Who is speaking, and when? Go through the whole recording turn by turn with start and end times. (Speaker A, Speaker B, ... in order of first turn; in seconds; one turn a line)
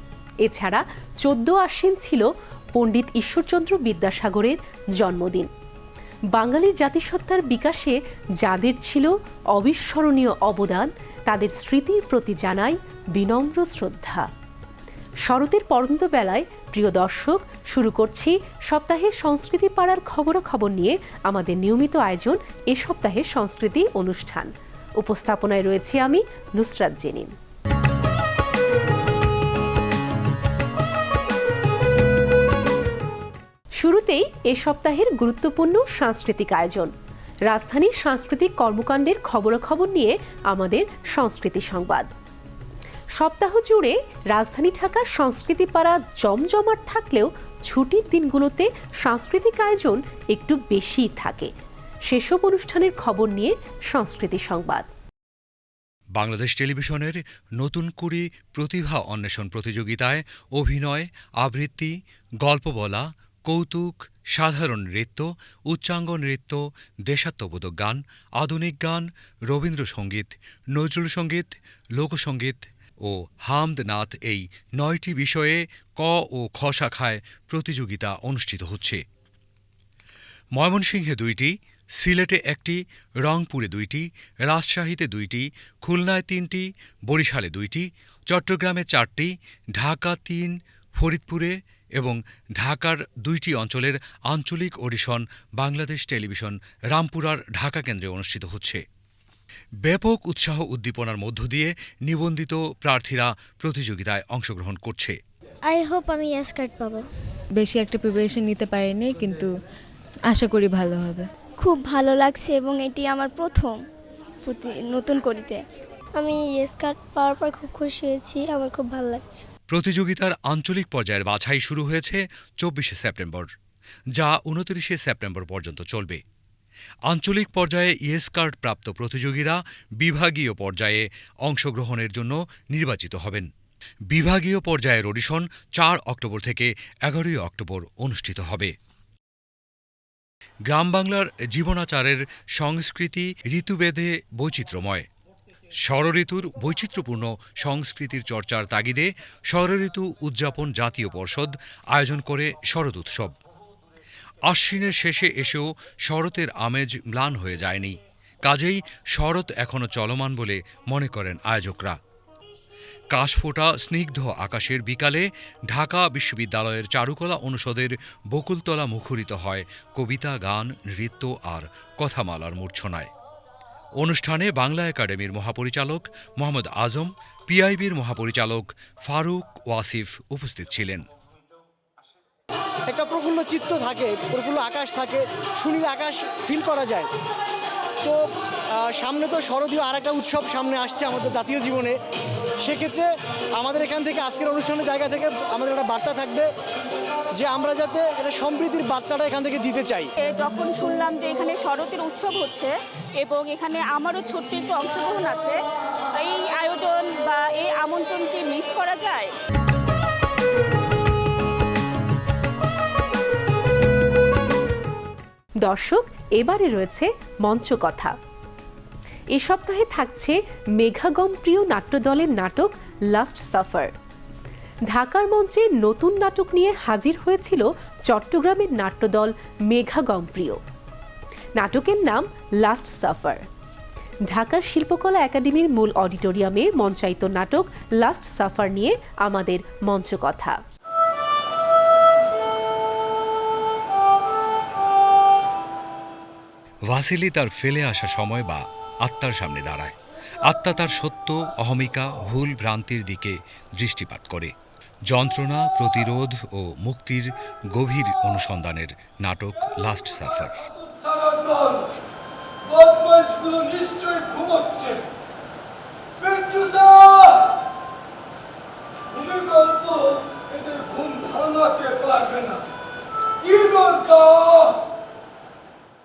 Speaker A: 0.4-5.5
Speaker A: 6.3-14.3
Speaker A: 15.3-27.3
Speaker A: 33.8-36.9
Speaker A: 37.5-42.1
Speaker A: 43.2-51.5
Speaker A: 52.1-54.9
Speaker B: 56.1-79.0
Speaker B: 80.5-98.8
Speaker B: 99.8-105.2
Speaker C: 105.7-107.1
Speaker D: 107.6-109.5
Speaker D: 110.3-111.2
Speaker C: 111.6-113.8
Speaker C: 114.5-115.6
Speaker C: 116.2-119.5
Speaker B: 119.7-123.5
Speaker B: 124.1-126.2
Speaker B: 127.1-133.5
Speaker B: 134.1-138.8
Speaker B: 140.7-145.1
Speaker B: 145.8-153.3
Speaker B: 154.5-162.0
Speaker B: 163.1-173.1
Speaker B: 174.0-181.0
Speaker E: 182.9-187.1
Speaker E: 188.8-192.0
Speaker E: 192.6-196.5
Speaker E: 197.4-200.1
Speaker F: 200.3-202.7
Speaker F: 203.2-205.5
Speaker F: 206.2-209.3
Speaker A: 215.6-218.1
Speaker A: 219.3-223.9
Speaker A: 224.9-230.6
Speaker A: 231.6-233.4
Speaker A: 234.3-240.6
Speaker B: 246.9-254.5
Speaker B: 255.1-260.6
Speaker G: 260.6-261.9
Speaker G: 262.7-265.0
Speaker G: 266.2-267.5
Speaker G: 269.1-272.6
Speaker G: 273.4-274.8